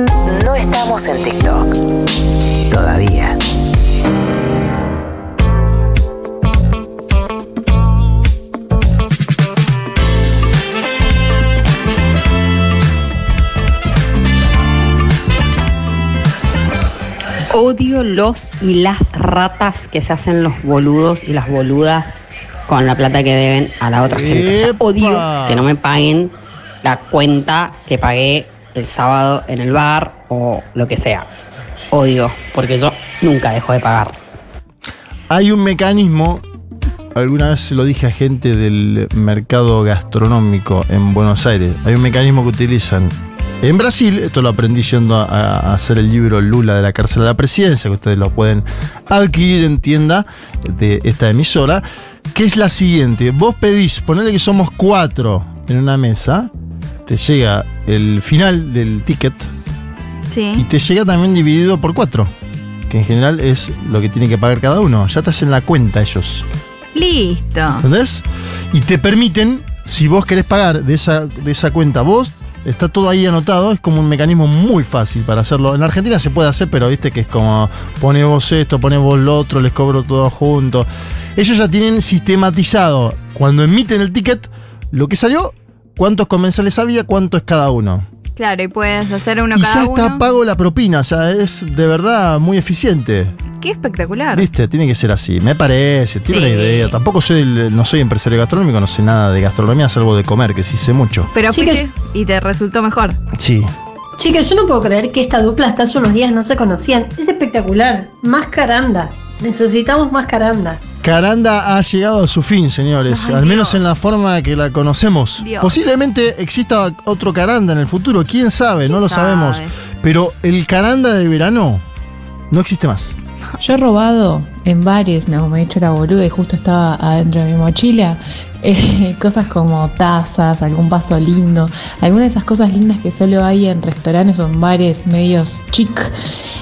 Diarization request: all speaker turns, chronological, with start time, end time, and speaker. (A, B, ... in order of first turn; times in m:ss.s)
0:00.2-0:01.8 A
0:02.7-0:03.4 A
0:17.5-0:31.3 B
0:24.1-0:25.7 C
0:31.9-0:34.2 B
0:35.3-0:36.4 C
0:37.1-0:56.5 C
0:57.0-0:59.5 C
1:00.3-1:00.6 D
1:00.5-1:02.3 C
1:02.9-1:06.4 C
1:06.9-1:07.9 D
1:07.8-1:28.1 C
1:28.4-1:30.2 D
1:29.5-1:33.4 C
1:33.6-1:34.5 D
1:34.3-1:41.3 C
1:36.3-1:36.9 D
1:41.3-1:43.2 D
1:41.5-1:41.8 E
1:43.4-1:43.7 C
1:44.2-1:50.8 E
1:51.0-2:01.8 C
1:53.1-1:54.0 D
1:55.4-1:55.8 D
1:58.9-1:59.7 D
2:02.5-2:03.2 C
2:03.6-2:16.1 F